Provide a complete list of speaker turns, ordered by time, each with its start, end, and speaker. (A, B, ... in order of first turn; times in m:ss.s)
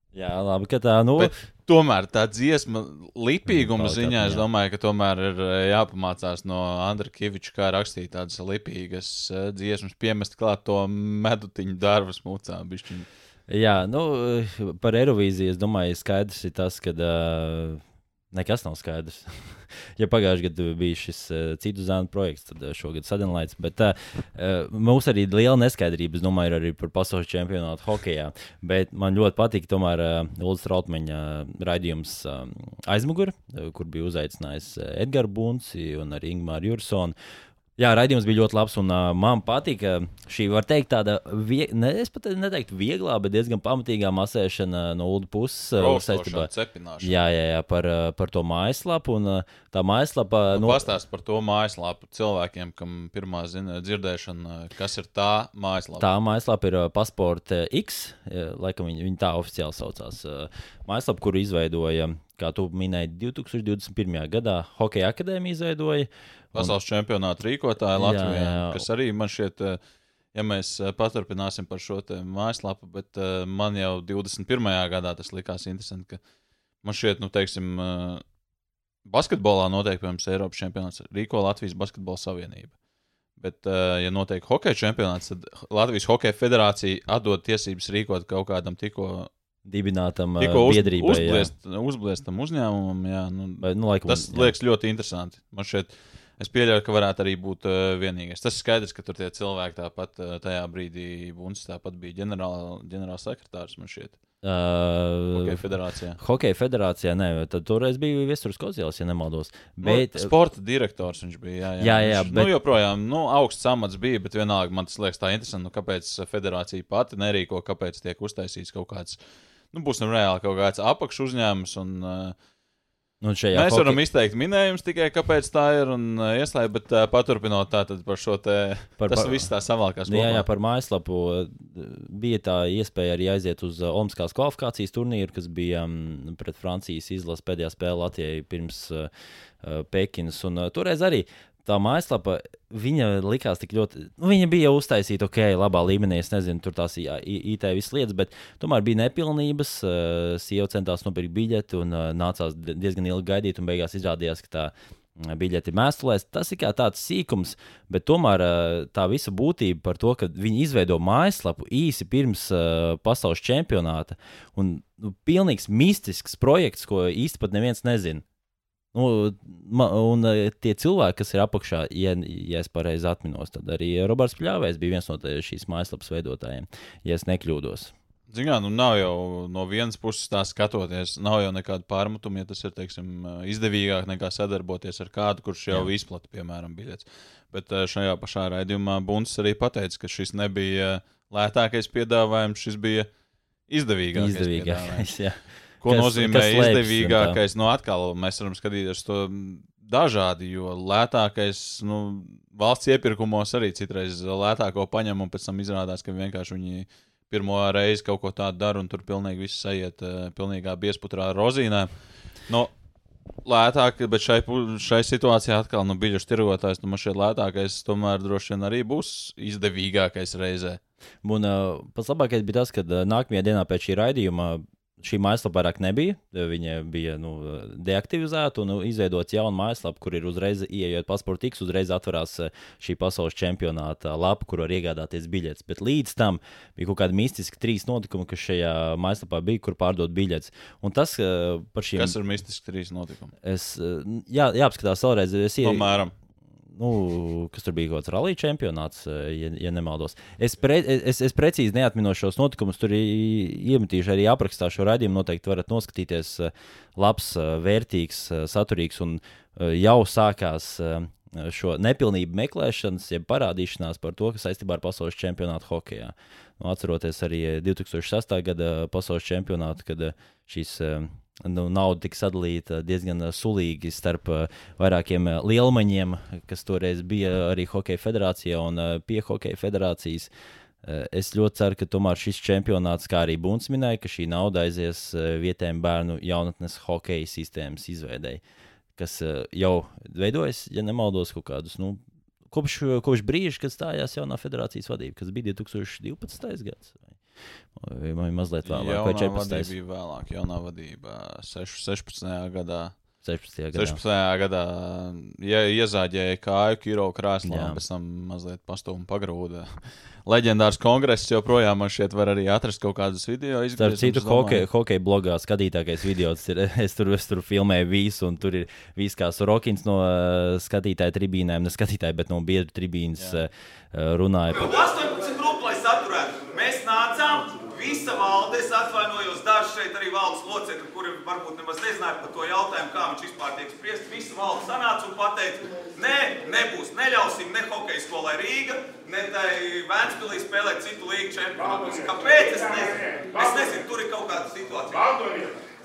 0:00.1-0:01.3 A
0:01.2-0:13.1 B
0:03.5-0:04.4 A
0:13.5-0:37.1 A
0:37.8-0:46.5 A
0:45.8-0:47.2 B
0:47.0-0:50.9 A
0:50.5-0:56.1 B
0:56.0-1:06.7 A
1:06.5-1:09.8 B
1:08.0-1:08.8 A
1:10.3-1:16.2 B
1:16.8-1:18.2 B
1:19.0-1:22.7 B
1:23.4-1:29.3 B
1:29.6-1:31.5 A
1:30.4-1:44.2 B
1:33.6-1:34.5 A
1:44.4-1:45.6 A
1:45.3-1:46.2 B
1:46.2-1:50.3 A
1:49.8-1:59.2 B
1:51.8-1:52.5 A
1:59.7-2:02.4 B
2:03.2-2:04.0 A
2:03.5-2:10.4 B
2:09.0-2:09.5 A
2:10.0-2:19.1 A
2:19.6-2:48.2 A
2:48.9-2:57.9 A
2:58.3-3:13.1 B
3:13.7-3:15.1 B
3:14.1-3:17.4 A
3:15.8-3:31.9 B
3:33.4-3:40.8 B
3:41.2-4:02.2 A
4:01.9-4:03.3 B
4:03.4-4:05.9 A
4:05.6-4:06.1 B
4:06.7-4:40.3 A
4:40.8-4:48.4 A
4:49.0-4:57.2 A
4:57.7-4:59.7 A
4:58.6-5:03.0 B
5:03.2-5:04.0 A
5:03.7-5:14.7 B
5:07.4-5:07.8 A
5:13.8-5:24.7 A
5:23.2-5:23.4 B
5:24.7-5:29.5 B
5:24.7-5:45.2 C
5:30.6-5:33.9 B
5:34.4-5:35.2 B
5:36.0-5:45.1 B